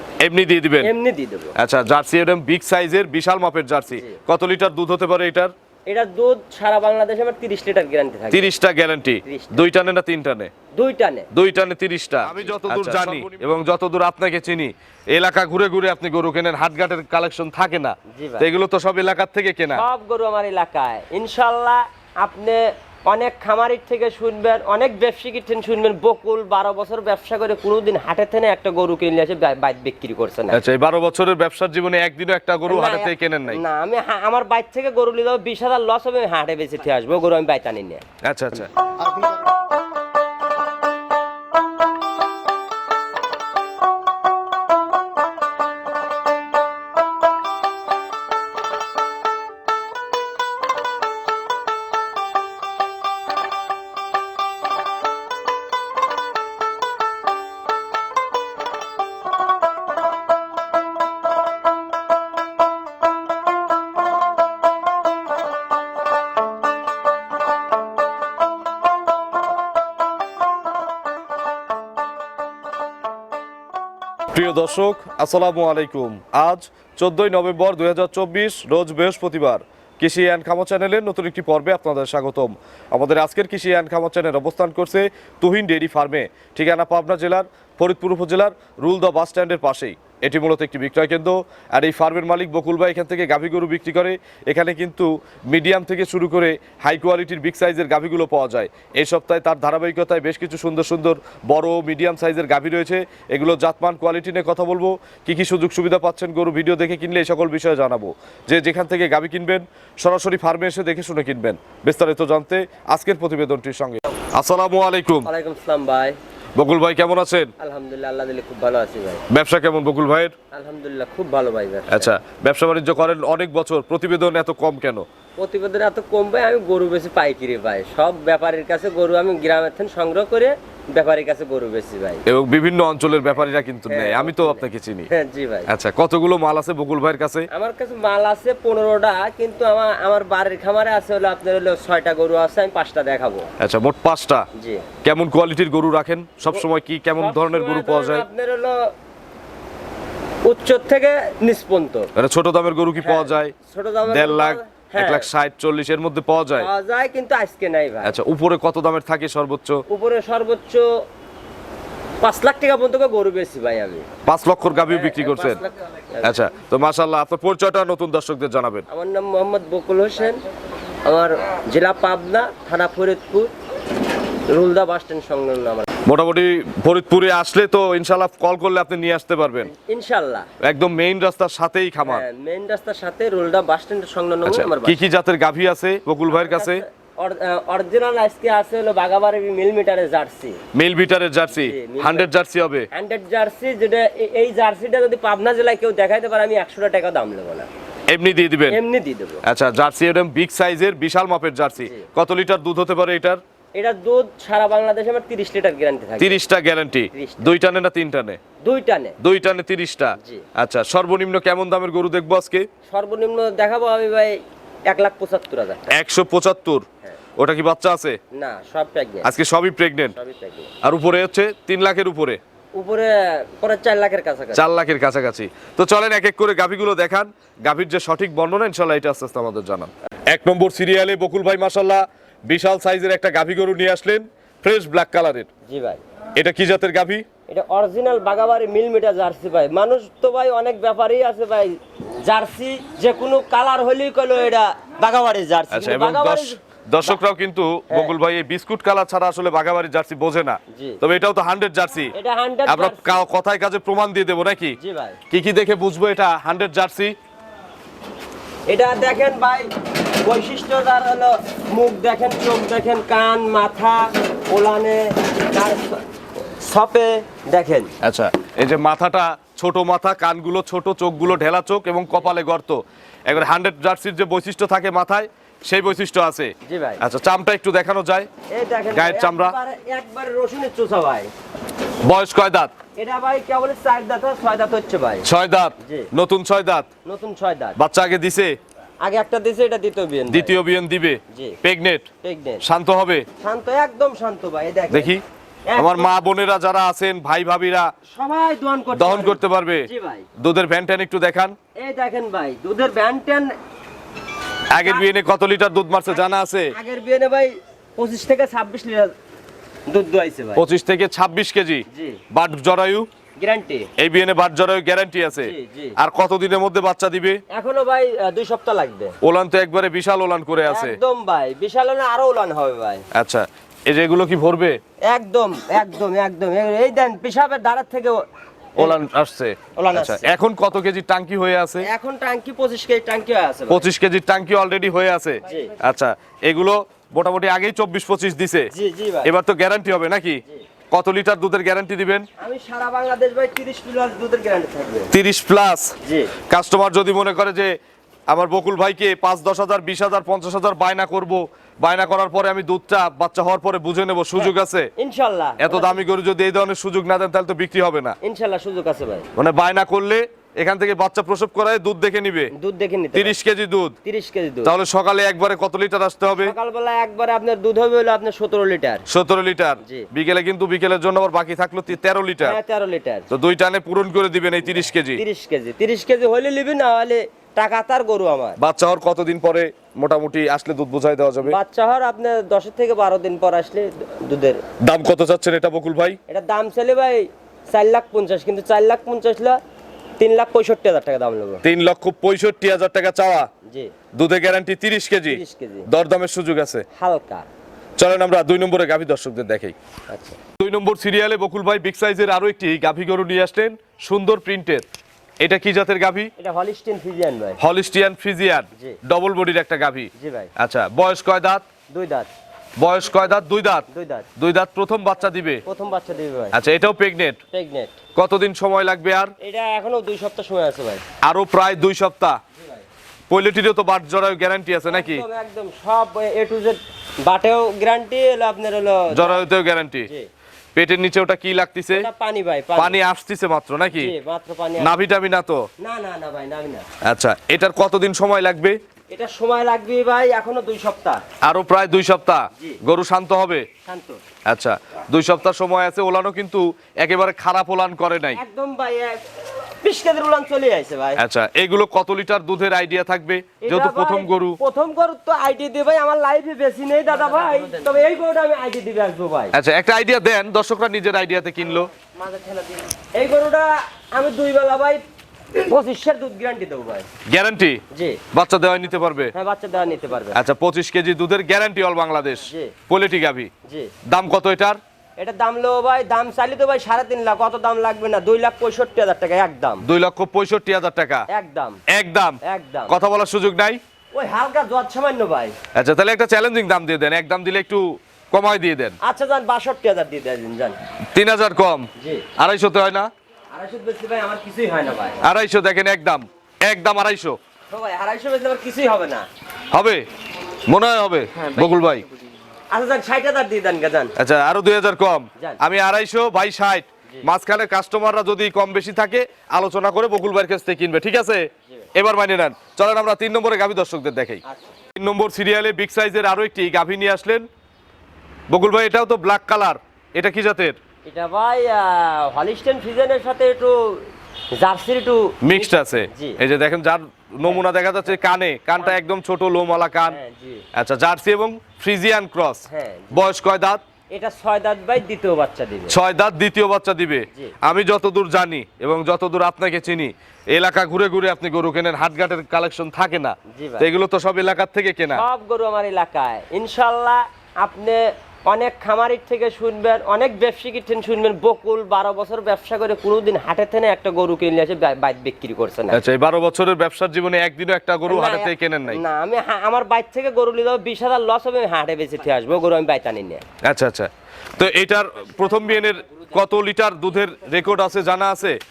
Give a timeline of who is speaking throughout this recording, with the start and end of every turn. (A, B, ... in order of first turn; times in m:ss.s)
0:00.2-0:00.9 A
0:00.8-0:01.6 B
0:01.6-0:05.5 A
0:03.9-0:04.2 B
0:05.9-0:08.5 B
0:08.3-0:10.5 A
0:09.2-0:09.6 B
0:10.7-0:11.3 B
0:11.3-0:19.9 A
0:12.4-0:13.0 B
0:18.1-0:18.5 B
0:19.7-0:30.6 B
0:30.5-0:33.6 A
0:32.7-0:38.0 B
0:38.2-0:38.7 A
1:14.3-1:55.3 A
1:55.2-1:56.2 B
1:56.6-1:57.5 A
1:57.6-1:59.2 B
1:59.3-2:00.3 A
2:00.5-2:02.1 B
2:01.9-2:05.1 A
2:05.4-2:12.2 B
2:12.3-2:15.1 A
2:13.9-2:15.7 B
2:15.7-2:17.5 A
2:17.5-2:23.5 B
2:23.6-2:24.5 A
2:24.6-2:24.9 B
2:25.0-2:28.3 A
2:27.2-2:28.9 B
2:30.4-2:32.1 B
2:32.2-2:33.5 A
2:33.0-2:35.3 B
2:34.1-2:36.7 A
2:36.6-2:38.2 B
2:38.0-2:39.8 A
2:39.9-2:40.8 B
2:42.2-2:44.1 B
2:44.3-2:45.6 A
2:44.9-2:46.4 B
2:46.2-2:48.9 A
2:48.9-2:50.4 B
2:51.0-2:53.5 B
2:54.5-2:55.9 B
2:56.1-2:59.7 A
2:59.7-3:00.5 B
3:00.6-3:02.2 A
3:02.0-3:05.0 B
3:04.4-3:06.8 A
3:06.3-3:10.6 B
3:10.7-3:12.9 A
3:11.5-3:12.3 B
3:12.9-3:17.7 B
3:18.1-3:18.8 A
3:18.7-3:19.4 B
3:19.4-3:23.4 A
3:21.8-3:22.1 B
3:23.8-3:26.4 B
3:26.2-3:28.4 A
3:27.1-3:27.5 B
3:28.6-3:29.2 B
3:29.2-3:32.7 A
3:30.2-3:30.5 B
3:32.9-3:35.9 B
3:35.9-3:36.8 A
3:37.4-3:38.2 A
3:38.3-3:39.3 B
3:39.2-3:40.2 A
3:40.1-3:40.7 B
3:40.8-3:42.4 A
3:42.8-3:44.6 B
3:44.6-3:55.5 A
3:55.7-3:56.0 B
3:56.4-3:57.2 A
3:57.5-4:07.2 B
4:05.7-4:12.1 A
4:10.7-4:11.0 B
4:12.2-4:13.2 B
4:12.7-4:14.8 A
4:14.8-4:15.2 B
4:15.3-4:17.2 A
4:18.7-4:19.7 B
4:20.2-4:26.0 B
4:26.6-4:27.9 B
4:28.0-4:38.3 A
4:36.6-4:37.0 B
4:38.5-4:41.3 B
4:38.9-4:39.6 A
4:42.0-4:42.7 A
4:43.0-4:45.3 B
4:45.2-4:46.9 A
4:45.8-4:46.1 B
4:47.0-4:47.8 B
4:47.8-4:48.5 A
4:49.0-4:50.6 B
4:50.3-4:52.1 A
4:51.3-4:51.6 B
4:52.2-4:52.6 B
4:52.6-4:53.3 A
4:53.4-4:55.2 B
4:54.9-4:55.2 A
4:55.7-4:56.1 B
4:55.8-4:57.9 A
4:58.1-5:00.3 B
4:59.0-4:59.9 A
5:00.4-5:01.6 A
5:01.8-5:03.5 B
5:04.7-5:06.7 A
5:04.8-5:05.0 B
5:06.1-5:09.1 B
5:09.9-5:10.6 B
5:10.6-5:13.1 A
5:11.9-5:12.2 B
5:13.4-5:13.9 B
5:14.0-5:17.4 A
5:15.3-5:16.0 B
5:17.5-5:19.2 B
5:19.2-5:21.0 A
5:20.6-5:23.0 B
5:23.1-5:24.8 A
5:25.1-5:28.2 B
5:28.8-5:31.9 A
5:29.8-5:30.3 B
5:31.8-5:33.9 B
5:33.7-5:38.7 A
5:35.5-5:35.7 B
5:38.7-5:39.3 B
5:39.2-5:42.3 A
5:42.4-5:45.1 B
5:45.1-5:46.0 A
5:46.0-5:46.4 B
5:46.5-5:47.8 A
5:48.3-5:54.9 A
5:54.4-5:56.0 B
5:55.6-5:58.2 A
5:58.2-5:59.3 B
5:59.4-6:02.5 A
6:02.6-6:03.4 B
6:03.1-6:04.0 A
6:04.0-6:04.7 B
6:04.6-6:06.6 A
6:06.3-6:09.0 B
6:09.1-6:12.6 A
6:09.8-6:10.1 B
6:12.4-6:13.3 B
6:13.3-6:15.2 A
6:15.1-6:18.6 B
6:18.6-6:21.6 A
6:21.4-6:24.6 B
6:24.8-6:26.2 A
6:26.3-6:29.6 B
6:30.2-6:31.6 B
6:31.6-6:33.5 A
6:33.6-6:33.9 B
6:34.1-6:36.8 A
6:35.3-6:35.9 B
6:37.0-6:37.5 B
6:38.0-6:39.8 A
6:40.1-6:40.4 B
6:40.6-6:44.8 A
6:45.4-6:46.3 A
6:46.4-6:47.6 B
6:47.6-6:51.6 A
6:50.2-6:50.5 B
6:51.9-6:52.3 B
6:52.8-6:55.6 A
6:53.9-6:54.3 B
6:55.7-6:56.6 B
6:56.5-6:57.4 A
6:57.5-6:58.0 B
6:58.2-6:59.3 A
6:59.4-7:01.0 B
7:01.2-7:02.4 A
7:02.6-7:02.8 B
7:03.3-7:05.2 A
7:04.9-7:09.5 B
7:09.1-7:10.1 A
7:10.8-7:12.1 A
7:11.9-7:13.0 B
7:12.8-7:14.1 A
7:14.0-7:15.0 B
7:14.8-7:15.6 A
7:15.8-7:16.9 B
7:17.0-7:18.8 A
7:19.1-7:21.2 B
7:21.4-7:23.7 A
7:23.8-7:24.2 B
7:24.5-7:28.4 A
7:28.3-7:29.3 B
7:29.8-7:31.2 B
7:31.2-7:34.6 A
7:33.6-7:39.6 B
7:39.5-7:41.9 A
7:43.2-7:45.0 B
7:45.6-7:47.1 B
7:47.3-7:47.8 A
7:47.9-7:48.2 B
7:48.3-7:49.3 A
7:49.3-7:50.4 B
7:50.3-7:53.5 A
7:52.4-7:52.8 B
7:53.7-7:53.9 B
7:54.1-7:54.8 A
7:55.2-7:59.8 B
7:59.8-8:01.3 A
8:01.3-8:01.8 B
8:01.9-8:03.8 A
8:02.4-8:03.0 B
8:04.2-8:05.6 B
8:05.8-8:09.0 A
8:09.0-8:10.8 B
8:11.1-8:13.1 A
8:12.0-8:12.3 B
8:13.5-8:15.2 B
8:15.2-8:17.4 A
8:17.7-8:19.3 B
8:19.7-8:20.0 A
8:20.7-8:22.1 A
8:22.7-8:24.1 B
8:24.2-8:34.4 A
8:34.5-8:34.7 B
8:35.0-8:37.5 A
8:38.5-8:40.8 A
8:41.1-8:46.4 B
8:45.4-8:50.2 A
8:50.1-8:50.6 B
8:50.7-8:53.8 A
8:52.7-8:53.2 B
8:54.1-8:56.0 B
8:55.9-9:05.2 A
9:03.5-9:03.9 B
9:05.1-9:16.0 B
9:15.9-9:19.0 A
9:18.1-9:23.4 B
9:23.6-9:28.6 A